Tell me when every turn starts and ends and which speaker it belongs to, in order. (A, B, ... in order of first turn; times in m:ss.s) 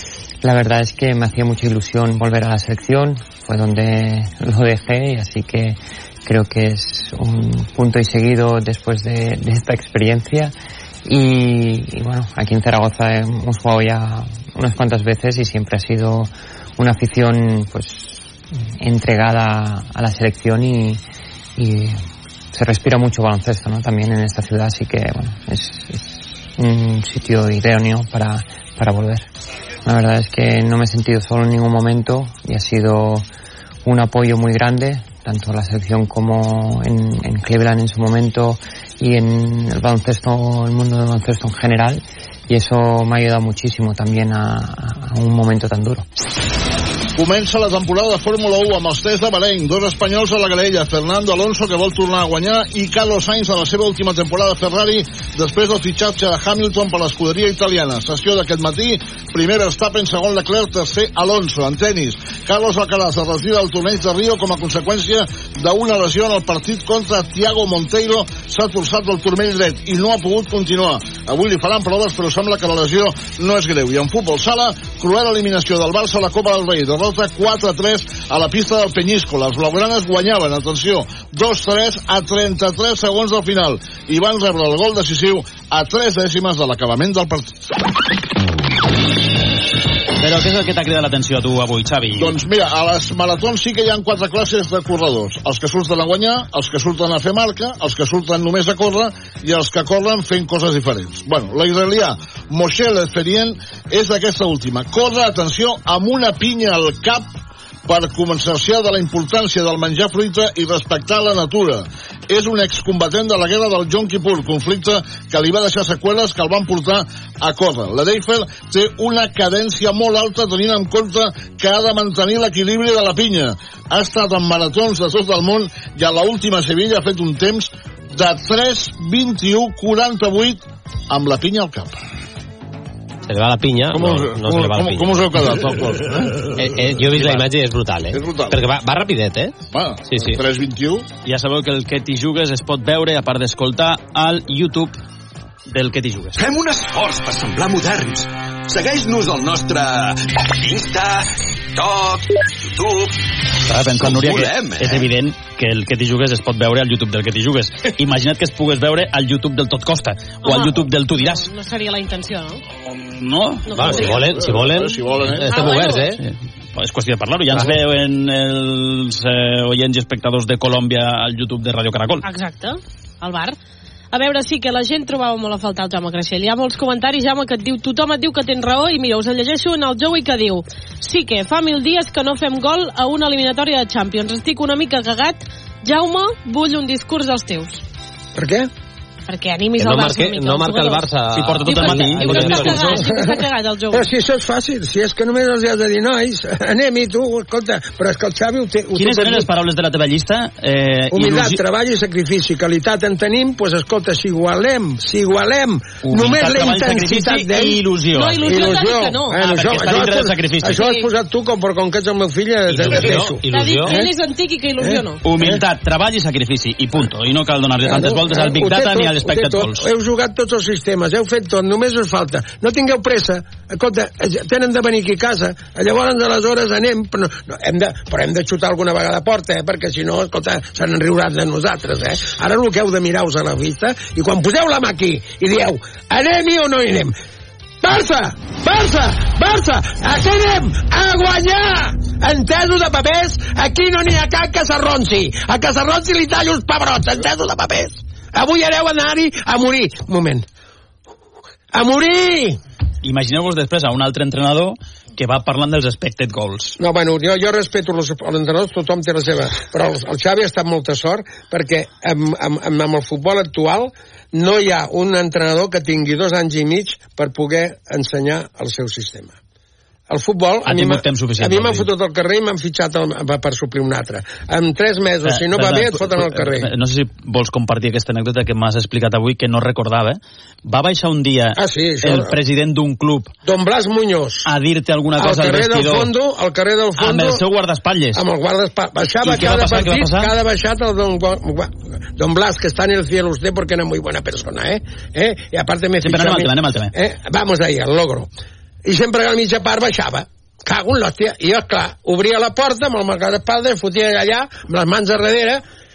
0:00.4-0:10.6 A
0:11.1-0:18.3 A
0:18.8-0:21.0 A
0:21.6-0:29.3 A
0:29.8-0:33.3 A
0:33.8-0:46.0 A
0:47.2-1:27.5 B
1:30.2-1:32.4 C
1:32.2-1:47.4 B
1:47.9-2:12.0 B
2:13.3-2:15.9 D
2:13.9-2:16.2 B
2:16.6-2:19.5 D
2:17.2-2:17.4 C
2:18.1-2:18.6 B
2:19.7-2:21.0 B
2:20.1-2:20.4 D
2:21.2-2:25.0 C
2:25.7-2:26.4 C
2:26.4-2:33.2 E
2:33.7-2:41.5 C
2:33.8-2:35.1 E
2:40.4-2:42.6 F
2:43.1-2:44.0 C
2:43.7-2:44.2 F
2:43.7-2:46.2 D
2:44.0-2:45.5 B
2:45.5-2:46.0 F
2:46.2-2:52.3 C
2:47.5-2:47.8 D
2:52.2-2:53.6 F
2:54.1-3:07.8 F
3:08.4-3:08.7 G
3:09.3-3:11.1 F
3:09.8-3:13.1 D
3:11.4-3:12.9 C
3:11.6-3:14.1 F
3:13.1-3:13.4 G
3:13.9-3:19.5 G
3:19.0-3:21.6 C
3:21.1-3:27.8 G
3:26.0-3:28.8 C
3:28.1-3:29.4 F
3:28.4-3:34.1 G
3:29.3-3:30.9 C
3:30.8-3:31.1 F
3:32.7-3:34.1 D
3:33.5-3:35.2 F
3:34.8-3:35.6 G
3:35.2-3:39.8 C
3:37.8-3:57.1 G
3:57.8-4:10.4 G
4:11.7-4:12.6 G
4:13.0-4:16.8 C
4:16.8-4:29.4 G
4:30.1-4:36.7 G
4:30.6-4:31.9 C
4:35.2-4:43.3 C
4:41.6-4:42.3 G
4:43.5-4:44.5 G
4:44.5-4:46.1 C
4:45.2-4:47.4 G
4:47.0-4:48.2 C
4:48.1-4:58.3 G
4:49.2-4:50.3 C
4:56.0-4:56.9 C
4:58.9-5:05.6 G